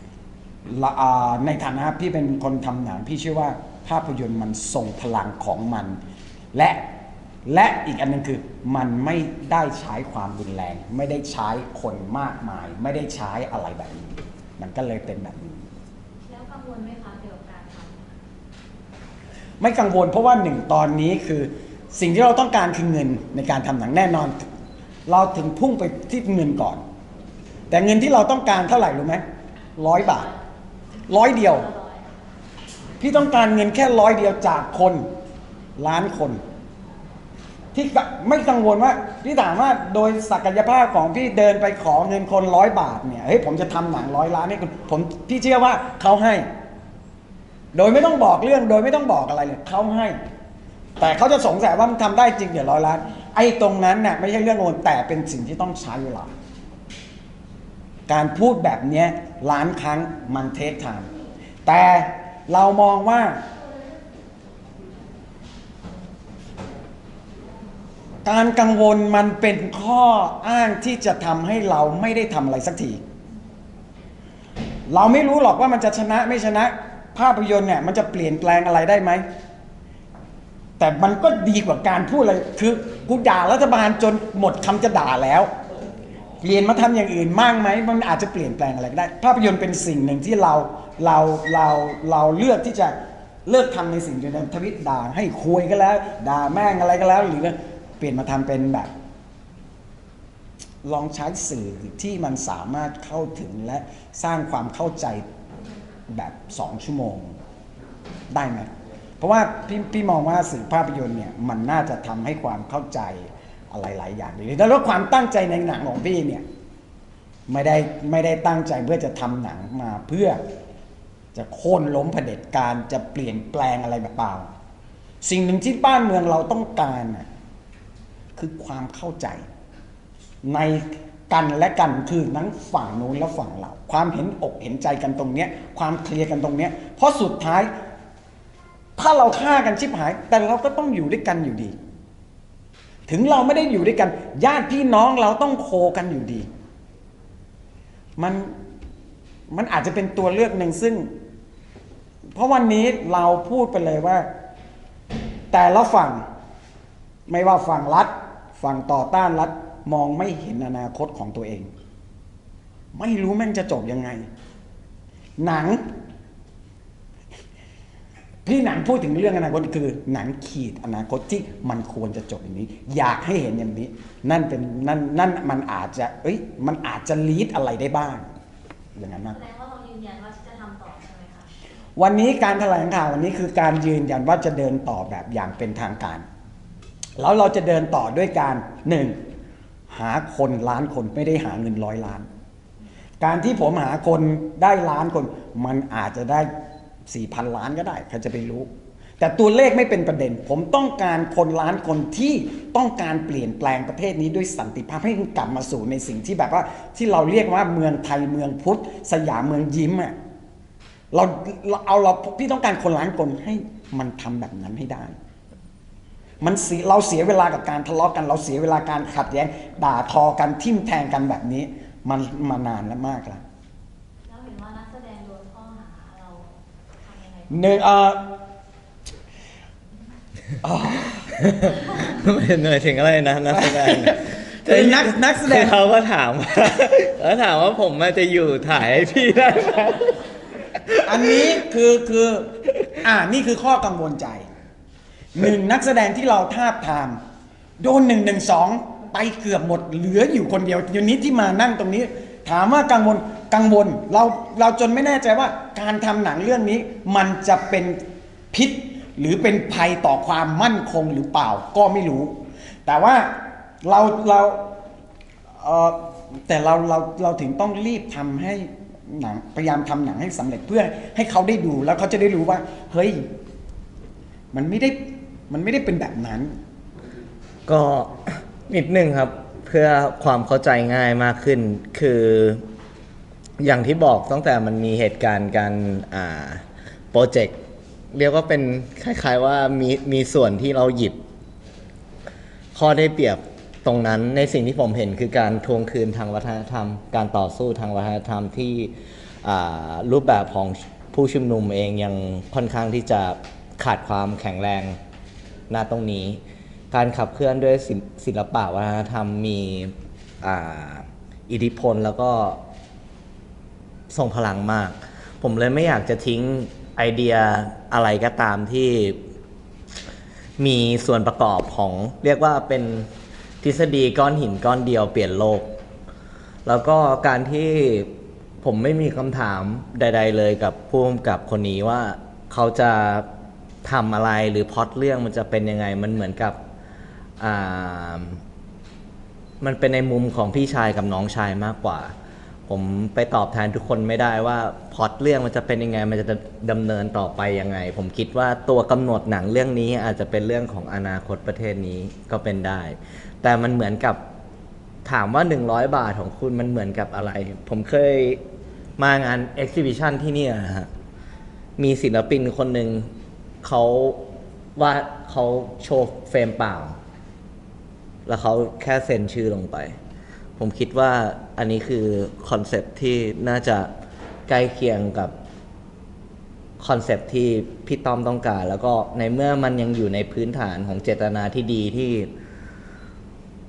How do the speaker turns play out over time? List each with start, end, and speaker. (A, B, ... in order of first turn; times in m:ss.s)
0:00.7-0:06.0 A
0:06.5-0:06.8 A
0:07.5-0:15.6 A
0:16.2-0:18.2 B
0:19.6-0:24.4 A
0:25.1-0:26.8 A
0:27.7-0:29.2 A
0:29.8-0:30.3 A
0:30.0-0:30.4 B
0:31.0-0:32.1 B
0:31.1-0:31.7 A
0:33.0-0:35.1 A
0:35.8-0:36.4 A
0:37.7-0:46.5 A
0:47.7-0:50.2 A
0:51.0-0:56.3 A
0:58.1-1:01.1 A
1:01.7-1:03.4 A
1:08.2-1:13.0 A
1:14.9-1:19.2 A
1:20.8-1:25.5 A
1:26.4-1:33.0 A
1:33.5-1:38.9 A
1:40.8-1:45.2 A
1:46.1-1:47.4 A
1:48.3-1:56.4 A
1:57.5-2:00.4 A
2:01.3-2:04.5 A
2:05.2-2:07.3 A
2:08.4-2:09.4 A
2:10.4-2:17.7 A
2:19.0-2:21.8 A
2:23.1-2:26.5 A
2:28.2-2:28.5 A
2:29.5-2:31.1 A
2:32.4-2:34.3 A
2:35.5-2:36.2 A
2:37.3-2:41.7 A
2:42.9-2:44.3 A
2:45.4-2:45.8 A
2:48.4-2:58.3 A
2:59.0-2:59.4 A
2:59.2-3:01.5 B
3:02.0-3:06.2 A
3:07.2-3:09.2 A
3:09.9-3:12.3 A
3:13.2-3:16.5 A
3:17.1-3:30.2 A
3:31.1-3:35.2 A
3:36.4-3:43.4 A
3:44.3-3:47.8 B
3:47.5-3:48.3 A
3:50.6-3:51.3 A
3:51.4-4:00.2 C
3:53.5-3:55.8 A
4:00.9-4:01.3 C
4:01.0-4:04.5 A
4:05.4-4:07.2 A
4:07.8-4:18.0 A
4:18.5-4:24.7 A
4:25.6-4:33.3 A
4:34.5-4:36.6 A
4:37.7-4:42.6 C
4:43.6-4:47.6 C
4:48.1-4:51.2 C
4:52.8-4:58.9 C
4:59.4-5:05.0 C
5:05.7-5:06.4 C
5:06.9-5:12.6 C
5:14.1-5:19.2 C
5:20.6-5:23.1 C
5:23.6-5:25.7 C
5:26.7-5:28.1 C
5:28.6-5:33.3 C
5:33.8-5:36.6 C
5:37.4-5:38.4 C
5:39.6-5:42.1 C
5:42.7-5:54.2 C
5:55.0-5:58.4 C
5:59.0-6:00.9 C
6:01.8-6:03.1 C
6:03.6-6:04.2 C
6:04.8-6:07.0 C
6:08.3-6:10.0 C
6:10.6-6:13.9 C
6:14.5-6:15.3 C
6:16.8-6:22.3 C